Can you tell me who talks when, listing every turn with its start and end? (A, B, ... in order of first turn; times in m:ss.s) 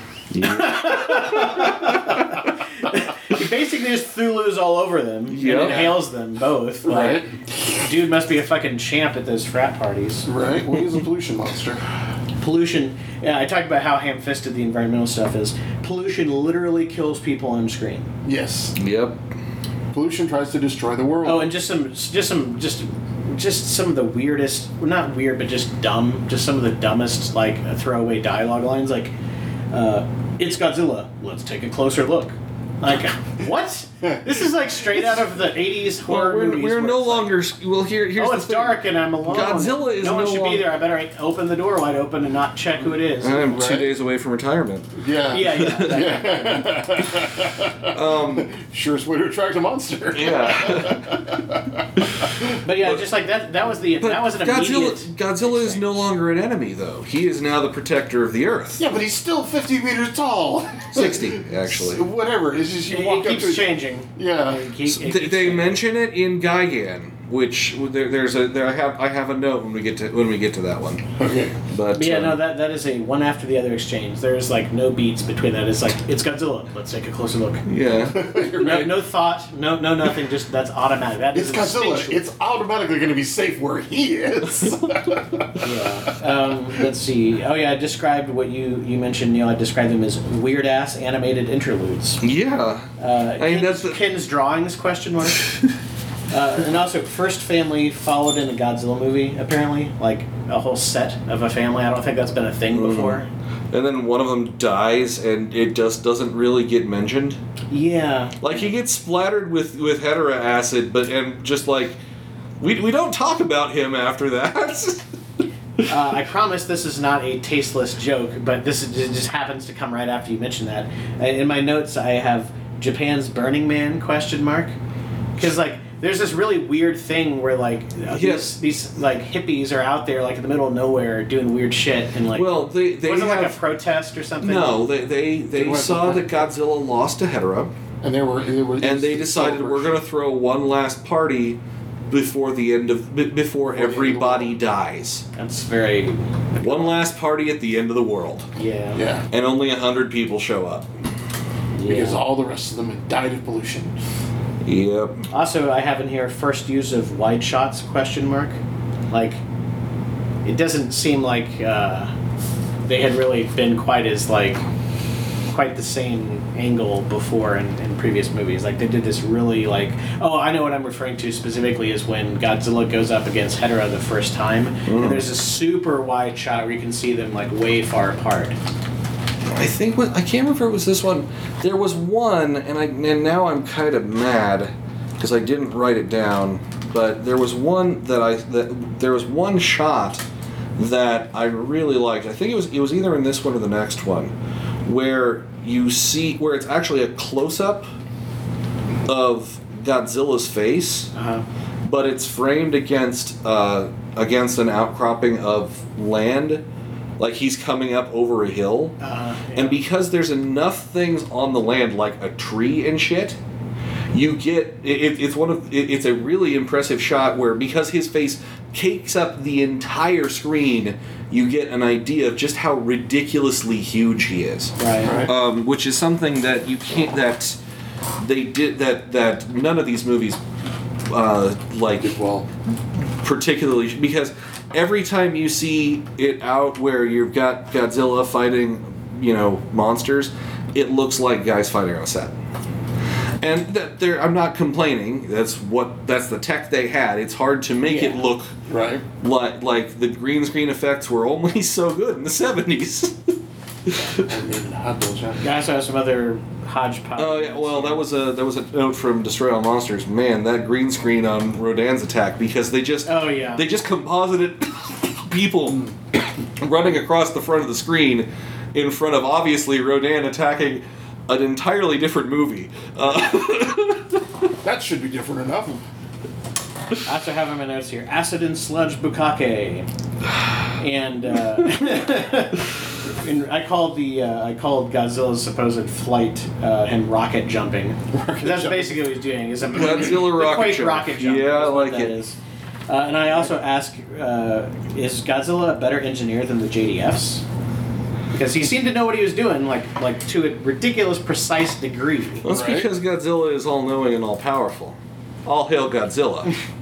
0:00.3-0:01.9 A
0:00.4-0:10.3 B
0:05.3-0:06.0 A
0:05.5-0:05.9 C
0:06.8-0:07.8 C
0:10.2-0:11.8 C
0:12.4-0:18.1 B
0:18.2-0:18.8 C
0:18.8-0:19.2 A
0:19.9-0:21.5 C
0:21.2-0:29.1 B
0:29.7-0:37.3 B
0:34.0-0:34.4 C
0:36.0-0:40.7 A
0:38.2-0:43.6 B
0:43.2-0:46.0 A
0:43.4-0:43.9 C
0:45.0-0:52.1 C
0:45.3-0:46.8 B
0:47.9-0:48.5 A
0:50.1-0:51.2 A
0:52.6-0:56.0 B
0:54.0-0:58.8 A
0:58.8-1:04.7 C
1:00.9-1:02.0 A
1:02.9-1:05.8 B
1:04.8-1:11.0 A
1:11.2-1:11.6 C
1:11.7-1:12.4 A
1:11.9-1:17.6 B
1:17.6-1:18.2 A
1:18.0-1:19.0 C
1:18.6-1:22.2 B
1:21.3-1:26.1 C
1:25.6-1:32.2 B
1:32.2-1:34.0 A
1:33.0-1:35.5 B
1:36.3-1:43.3 B
1:42.7-1:47.4 A
1:47.7-1:48.6 B
1:48.4-1:52.0 A
1:52.6-1:55.0 A
1:55.9-2:04.7 B
2:05.4-2:14.9 B
2:08.1-2:08.5 A
2:12.3-2:13.6 A
2:14.4-2:17.7 A
2:15.5-2:16.3 C
2:18.0-2:20.0 C
2:18.8-2:25.2 A
2:23.7-2:24.5 C
2:25.3-2:26.9 B
2:26.6-2:28.5 A
2:28.6-2:29.0 B
2:28.9-2:29.2 C
2:29.3-2:30.9 A
2:31.7-2:32.2 B
2:31.8-2:33.9 C
2:34.6-2:35.2 A
2:35.3-2:38.6 B
2:39.1-2:39.4 B
2:40.4-2:42.1 B
2:42.8-2:44.6 B
2:45.5-2:58.6 B
2:54.9-2:55.2 A
2:59.4-3:10.2 A
3:10.8-3:14.3 A
3:14.8-3:17.9 A
3:19.0-3:21.1 A
3:21.1-3:21.4 B
3:21.8-3:26.6 A
3:27.2-3:29.0 A
3:29.0-3:29.8 B
3:29.6-3:33.4 A
3:34.1-3:47.6 A
3:44.8-3:45.2 B
3:45.0-3:45.3 C
3:48.2-3:50.4 A
3:51.1-3:52.2 A
3:51.9-3:52.5 C
3:53.2-4:02.3 A
4:03.4-4:08.5 A
4:07.8-4:08.2 B
4:08.7-4:09.0 C
4:09.2-4:13.3 A
4:13.8-4:14.3 A
4:14.2-4:15.4 C
4:15.4-4:18.0 B
4:17.2-4:25.9 A
4:23.0-4:23.6 B
4:26.6-4:34.2 A
4:34.6-4:35.8 C
4:37.0-4:39.9 B
4:40.8-4:57.4 B
4:48.1-4:49.0 C
4:49.7-4:52.1 A
4:49.7-4:50.3 C
4:58.3-5:02.4 B
5:02.4-5:06.5 A
5:02.4-5:02.9 C